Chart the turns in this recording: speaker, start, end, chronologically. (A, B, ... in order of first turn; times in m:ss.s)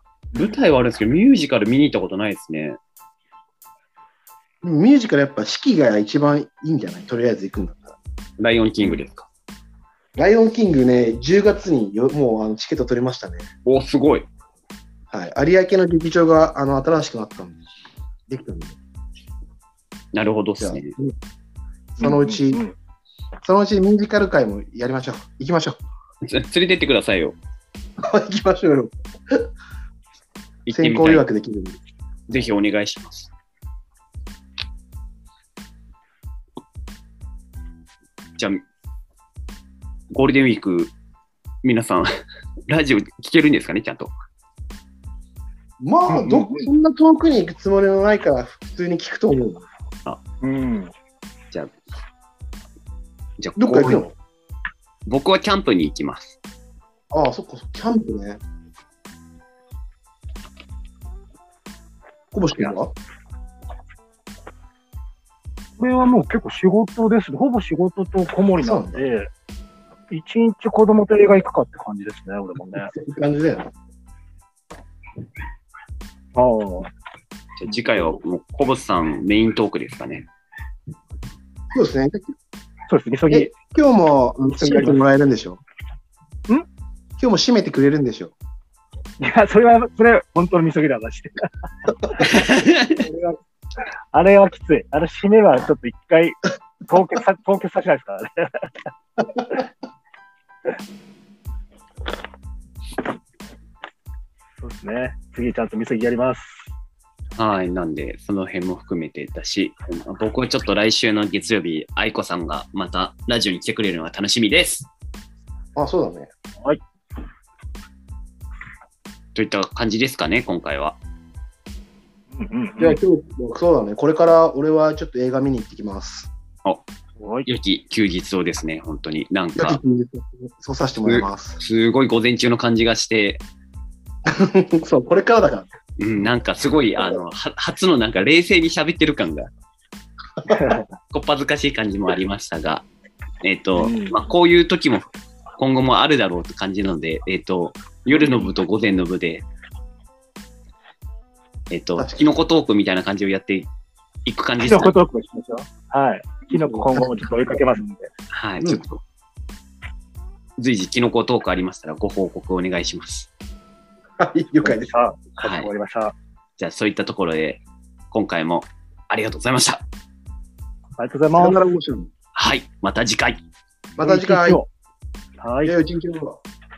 0:00.3-0:02.8 A
0:04.6-0:08.0 B
0:08.4-0:09.3 A
0:10.2-0:13.5 B
0:13.6-0:14.3 A
0:15.1-0:17.6 B
0:18.3-0:18.8 B
0:20.1-0:20.9 A
0:20.6-0:21.1 B
0:22.0-0:22.6 B
0:22.0-0:22.7 C
0:23.4-0:25.8 B
0:26.2-0:27.4 A
0:28.0-0:29.4 B
0:30.6-0:31.2 A
0:30.7-0:31.8 B
0:32.3-0:33.3 A
0:38.4-0:38.6 A
0:40.1-0:40.9 A
0:41.6-0:42.1 A
0:42.7-0:44.1 A
0:45.8-0:49.7 B
0:46.1-0:46.7 C
0:50.4-0:50.9 C
0:53.4-0:54.1 A
0:53.6-0:54.1 B
0:55.1-0:56.4 A
0:57.1-0:58.4 B
1:02.3-1:02.9 B
1:05.8-1:09.3 C
1:08.6-1:09.0 B
1:10.1-1:12.9 C
1:12.9-1:13.7 B
1:16.3-1:16.9 C
1:17.6-1:20.3 A
1:17.7-1:18.2 C
1:21.7-1:22.3 B
1:22.9-1:23.5 C
1:23.3-1:25.6 B
1:24.6-1:25.0 C
1:27.2-1:28.3 B
1:29.2-1:31.5 C
1:32.0-1:33.4 C
1:32.2-1:33.0 A
1:34.1-1:38.7 C
1:44.6-1:46.7 C
1:47.4-1:54.9 A
1:55.7-1:56.3 B
1:59.3-2:01.0 A
2:02.3-2:03.0 C
2:02.8-2:06.3 B
2:07.2-2:07.5 C
2:07.4-2:09.8 A
2:09.6-2:11.6 B
2:11.0-2:13.4 A
2:14.2-2:15.7 B
2:16.0-2:19.5 A
2:20.4-2:20.7 B
2:20.4-2:20.9 C
2:21.1-2:22.9 A
2:23.4-2:25.1 A
2:23.8-2:24.2 C
2:25.6-2:29.4 A
2:28.1-2:28.5 C
2:31.7-2:33.7 A
2:32.0-2:32.3 B
2:34.2-2:34.9 A
2:34.6-2:38.1 C
2:36.5-2:37.0 B
2:38.3-2:39.0 A
2:40.6-2:43.3 A
2:44.2-2:44.9 B
2:44.6-2:46.1 C
2:45.4-2:45.7 A
2:46.6-2:49.8 A
2:51.0-2:51.6 C
2:51.3-2:52.1 B
2:52.3-2:53.4 A
2:54.0-2:54.6 B
2:54.0-2:54.7 C
2:55.4-2:55.8 C
2:55.6-2:56.4 B